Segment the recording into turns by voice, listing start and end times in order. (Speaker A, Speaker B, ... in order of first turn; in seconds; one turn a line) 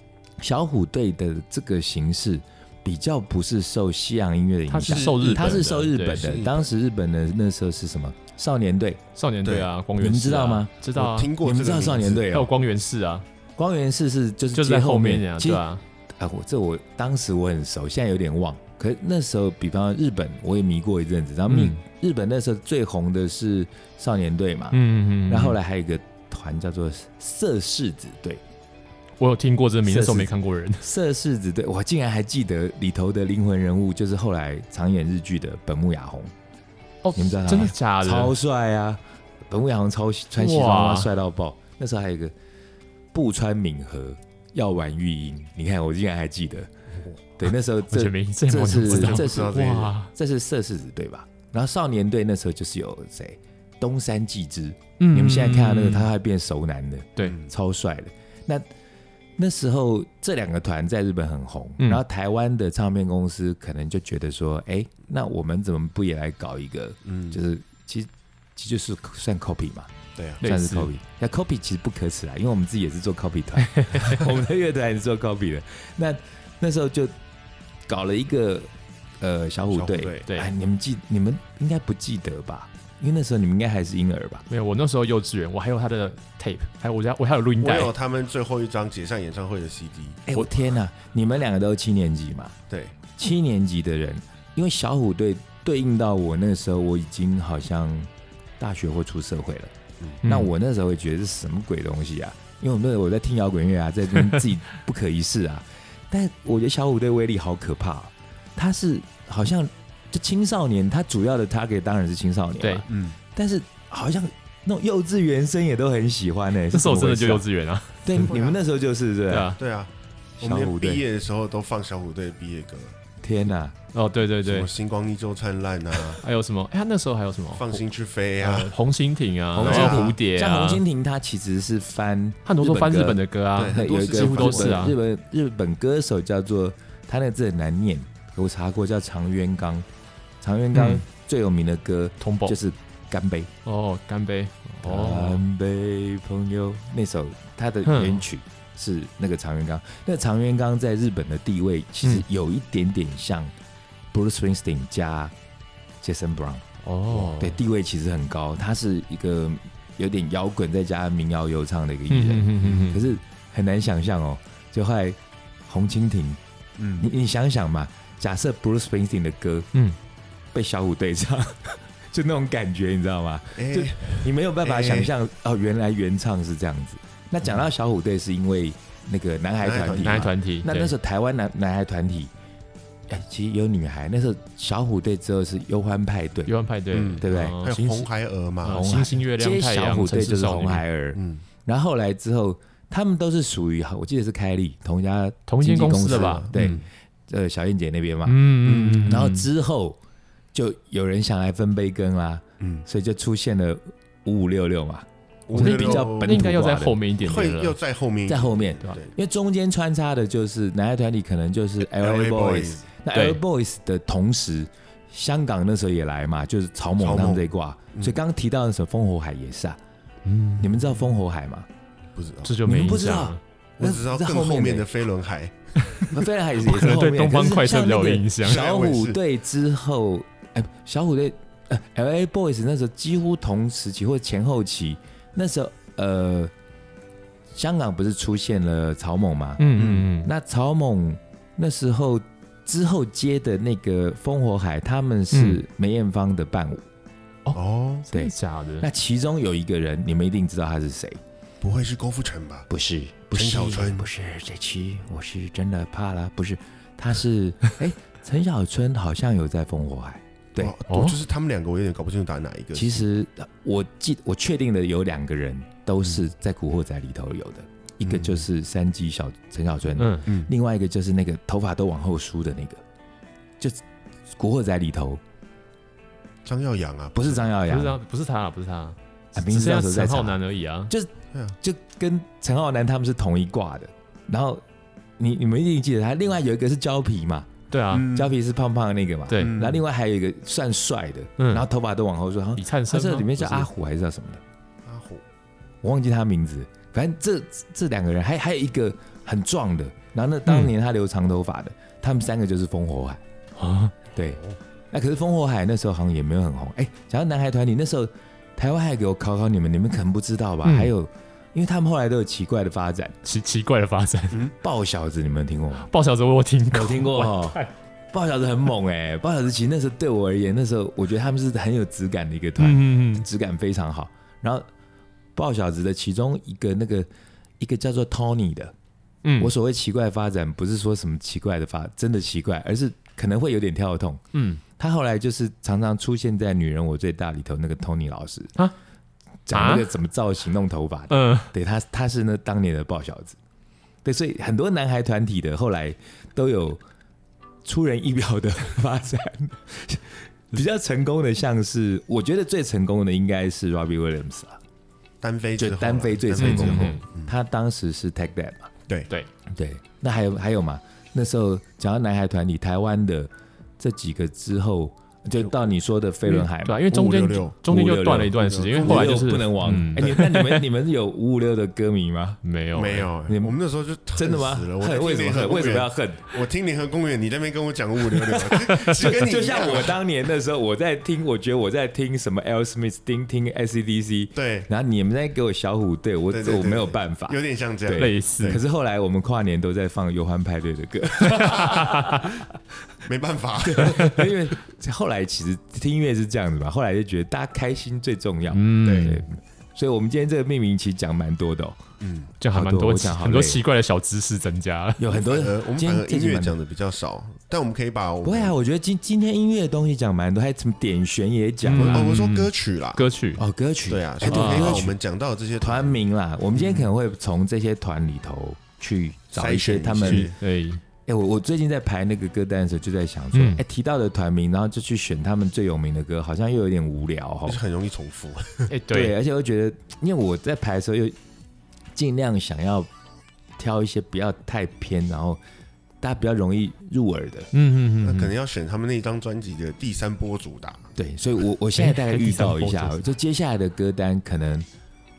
Speaker A: 0.4-9.0
Speaker B: 4.7-6.4
Speaker C: 4.9-5.6
Speaker C: 6.2-6.7
Speaker B: 9.2-11.3
Speaker A: 10.0-10.8
Speaker C: 10.9-12.3
Speaker A: 11.4-12.5
Speaker B: 12.2-13.3
Speaker A: 13.6-28.4
Speaker B: 14.5-15.8
Speaker B: 21.5-21.8
Speaker B: 24.7-25.6
Speaker B: 29.2-30.9
Speaker A: 29.9-36.3
Speaker B: 37.0-38.4
Speaker A: 37.1-42.3
Speaker B: 40.4-41.1
Speaker A: 43.1-46.7
Speaker A: 47.4-58.6
Speaker B: 47.9-50.1
Speaker C: 48.8-50.0
Speaker B: 55.0-56.1
Speaker C: 57.2-57.5
Speaker A: 59.4-69.9
Speaker C: 67.0-67.4
Speaker C: 70.2-70.4
Speaker B: 70.4-70.9
Speaker A: 70.4-77.2
Speaker B: 73.6-74.2
Speaker A: 77.9-84.5
Speaker C: 79.7-80.3
Speaker B: 84.5-87.9
Speaker C: 87.6-90.2
Speaker A: 90.3-92.5
Speaker C: 92.7-93.0
Speaker A: 93.2-99.7
Speaker B: 100.2-100.5
Speaker A: 100.2-117.5
Speaker C: 112.9-113.2
Speaker B: 116.7-118.4
Speaker A: 118.0-119.6
Speaker C: 118.2-118.6
Speaker B: 119.3-119.6
Speaker C: 119.5-119.9
Speaker A: 120.4-121.0
Speaker C: 120.4-123.0
Speaker A: 123.2-123.8
Speaker B: 123.9-124.7
Speaker C: 124.4-126.2
Speaker B: 126.0-127.8
Speaker C: 127.5-128.8
Speaker B: 128.4-130.8
Speaker C: 129.6-130.2
Speaker A: 129.6-139.9
Speaker B: 132.5-135.0
Speaker C: 133.6-134.9
Speaker A: 140.4-143.5
Speaker B: 140.7-141.0
Speaker B: 142.2-142.6
Speaker B: 143.7-145.4
Speaker A: 144.8-153.5
Speaker B: 147.9-148.2
Speaker A: 154.1-155.3
Speaker A: 156.0-156.7
Speaker B: 156.8-157.6
Speaker A: 157.3-166.4
Speaker B: 162.1-163.1
Speaker C: 166.8-167.1
Speaker A: 167.0-169.7
Speaker A: 170.5-182.3
Speaker C: 173.6-175.1
Speaker C: 179.6-180.3
Speaker B: 179.9-181.0
Speaker A: 183.1-186.5
Speaker B: 186.5-188.1
Speaker C: 186.9-189.0
Speaker A: 187.2-187.6
Speaker B: 188.6-190.8
Speaker A: 188.7-198.5
Speaker C: 191.2-191.4
Speaker B: 195.5-196.8
Speaker C: 196.1-196.8
Speaker B: 198.2-199.5
Speaker C: 198.6-199.3
Speaker A: 199.0-200.0
Speaker A: 200.5-207.0
Speaker C: 202.6-202.8
Speaker C: 205.5-206.4
Speaker B: 205.6-207.8
Speaker C: 207.2-209.1
Speaker A: 208.3-219.8
Speaker C: 211.8-212.9
Speaker B: 213.1-213.4
Speaker C: 217.0-218.2
Speaker B: 220.2-220.8
Speaker A: 220.6-221.7
Speaker C: 222.2-222.6
Speaker B: 222.4-223.4
Speaker A: 222.6-224.9
Speaker C: 223.8-225.6
Speaker B: 225.9-228.6
Speaker A: 226.1-236.5
Speaker C: 228.4-229.2
Speaker A: 237.5-239.7
Speaker B: 239.6-240.3
Speaker C: 239.8-240.1
Speaker A: 240.2-246.9
Speaker B: 245.3-245.6
Speaker B: 247.5-248.9
Speaker C: 247.5-248.1
Speaker A: 248.1-251.2
Speaker C: 251.6-252.7
Speaker A: 252.7-260.8
Speaker C: 253.3-254.1
Speaker C: 260.6-263.0
Speaker B: 260.9-261.2
Speaker A: 262.8-272.8
Speaker C: 268.0-268.5
Speaker B: 270.0-270.3
Speaker C: 270.3-270.5
Speaker A: 273.6-275.2
Speaker C: 276.5-277.5
Speaker A: 277.1-278.0
Speaker B: 277.7-280.9
Speaker A: 279.4-284.6
Speaker A: 285.2-294.4
Speaker B: 287.7-288.1
Speaker C: 287.9-288.3
Speaker B: 289.3-289.8
Speaker C: 289.4-289.8
Speaker B: 291.4-291.7
Speaker B: 292.6-293.7
Speaker C: 294.9-295.2
Speaker A: 295.8-303.2
Speaker B: 303.6-304.0
Speaker A: 304.9-313.2
Speaker B: 310.6-310.9
Speaker B: 313.2-314.5
Speaker A: 314.5-315.9
Speaker B: 315.9-317.7
Speaker A: 316.7-324.7
Speaker B: 322.6-323.3
Speaker A: 325.4-327.1
Speaker A: 327.6-328.7
Speaker B: 329.2-329.5
Speaker A: 329.4-334.2
Speaker B: 334.3-334.6
Speaker A: 334.8-338.6
Speaker A: 339.5-343.4
Speaker B: 339.5-339.9
Speaker B: 341.1-341.5
Speaker A: 344.0-346.8
Speaker A: 347.6-354.6
Speaker C: 355.2-357.3
Speaker A: 355.6-358.7
Speaker B: 356.4-357.0
Speaker A: 359.5-366.8
Speaker B: 366.3-370.7
Speaker C: 366.9-367.6
Speaker A: 367.6-372.4
Speaker C: 368.3-370.2
Speaker B: 372.4-373.1
Speaker C: 372.8-380.0
Speaker A: 373.3-373.5
Speaker A: 374.2-376.4
Speaker A: 378.0-392.4
Speaker C: 384.4-384.7
Speaker C: 386.3-388.6
Speaker B: 388.0-388.6
Speaker B: 391.3-392.4
Speaker C: 391.4-391.8
Speaker C: 393.1-394.3
Speaker A: 393.6-401.8
Speaker B: 393.9-394.2
Speaker B: 398.5-399.3
Speaker C: 398.8-399.2
Speaker C: 402.0-402.3
Speaker B: 402.4-405.0
Speaker A: 402.5-403.6
Speaker A: 405.0-406.6
Speaker C: 405.1-408.6
Speaker A: 408.2-412.2
Speaker B: 411.6-413.4
Speaker C: 411.8-413.0
Speaker A: 413.4-414.9
Speaker C: 413.9-416.0
Speaker B: 414.3-414.9
Speaker A: 415.6-420.3
Speaker C: 416.5-416.9
Speaker C: 419.4-420.4
Speaker B: 420.0-420.8
Speaker A: 421.1-427.6
Speaker B: 423.3-423.6
Speaker C: 427.5-428.7
Speaker B: 428.7-429.1
Speaker A: 428.9-431.2
Speaker A: 431.9-432.9
Speaker A: 433.6-435.4
Speaker A: 436.0-437.5
Speaker B: 437.5-438.4
Speaker C: 438.0-440.9
Speaker A: 441.0-444.7
Speaker B: 441.8-443.1